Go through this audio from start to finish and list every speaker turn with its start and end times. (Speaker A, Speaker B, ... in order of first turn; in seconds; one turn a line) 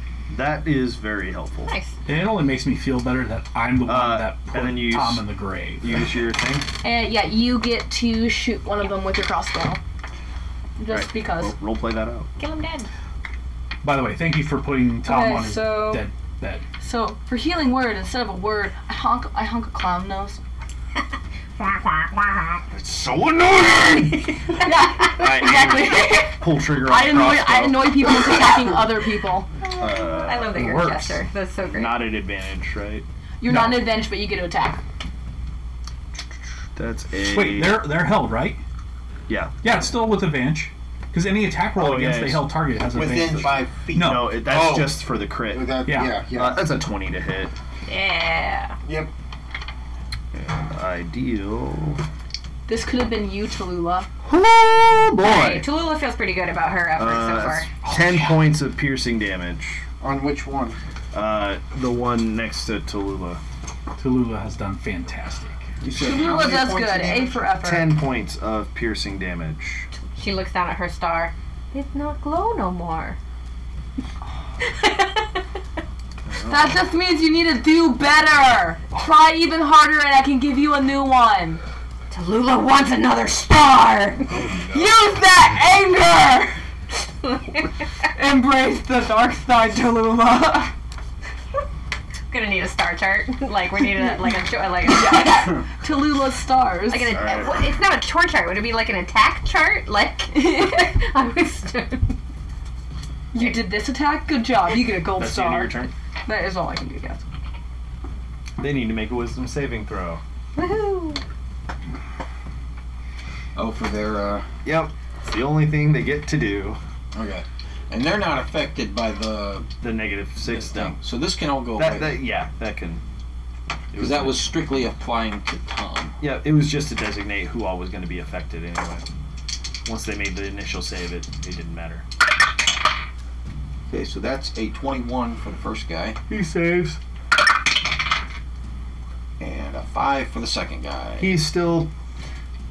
Speaker A: 0.3-1.7
Speaker B: 2.1-6.1
Speaker A: 3.8-6.7
Speaker C: 6.8-9.8
Speaker C: 10.8-11.6
Speaker A: 10.9-12.3
Speaker D: 12.4-12.9
Speaker B: 13.8-16.6
Speaker C: 15.0-16.1
Speaker C: 16.8-20.4
Speaker D: 21.6-22.6
Speaker A: 22.7-28.1
Speaker C: 24.6-29.5
Speaker D: 29.6-32.2
Speaker A: 29.8-31.1
Speaker A: 31.7-33.1
Speaker C: 33.4-34.8
Speaker A: 36.8-38.0
Speaker B: 37.2-38.6
Speaker A: 39.3-39.7
Speaker B: 39.6-44.3
Speaker A: 41.8-47.5
Speaker E: 42.9-46.6
Speaker B: 45.9-46.2
Speaker D: 47.9-48.8
Speaker E: 48.9-49.1
Speaker A: 50.3-52.0
Speaker C: 52.7-54.1
Speaker A: 54.2-55.7
Speaker D: 55.2-57.8
Speaker A: 57.0-59.9
Speaker E: 60.0-60.8
Speaker A: 61.1-63.4
Speaker B: 64.0-65.7
Speaker E: 65.8-67.5
Speaker C: 66.0-68.0
Speaker A: 67.6-69.9
Speaker D: 70.1-73.2
Speaker D: 74.6-75.4
Speaker A: 76.3-76.8
Speaker C: 76.5-81.6
Speaker D: 82.1-84.3
Speaker A: 84.3-84.9
Speaker C: 84.7-86.6
Speaker D: 87.3-87.6
Speaker C: 88.1-90.7
Speaker D: 92.3-95.6
Speaker C: 94.0-94.3
Speaker C: 94.8-97.2
Speaker D: 96.9-102.2
Speaker A: 97.1-97.6
Speaker C: 100.3-100.9
Speaker C: 103.3-107.2
Speaker D: 103.4-103.7
Speaker A: 105.1-105.9
Speaker A: 108.6-110.2
Speaker D: 110.6-111.2
Speaker E: 113.5-114.5
Speaker A: 114.6-116.8
Speaker E: 117.1-119.7
Speaker A: 119.8-121.0
Speaker E: 120.5-122.2
Speaker A: 121.8-123.0
Speaker A: 123.9-124.6
Speaker E: 124.0-126.2
Speaker A: 126.2-129.1
Speaker A: 129.8-132.1
Speaker E: 133.9-136.2
Speaker A: 136.3-137.0
Speaker E: 139.4-141.4
Speaker A: 141.2-141.9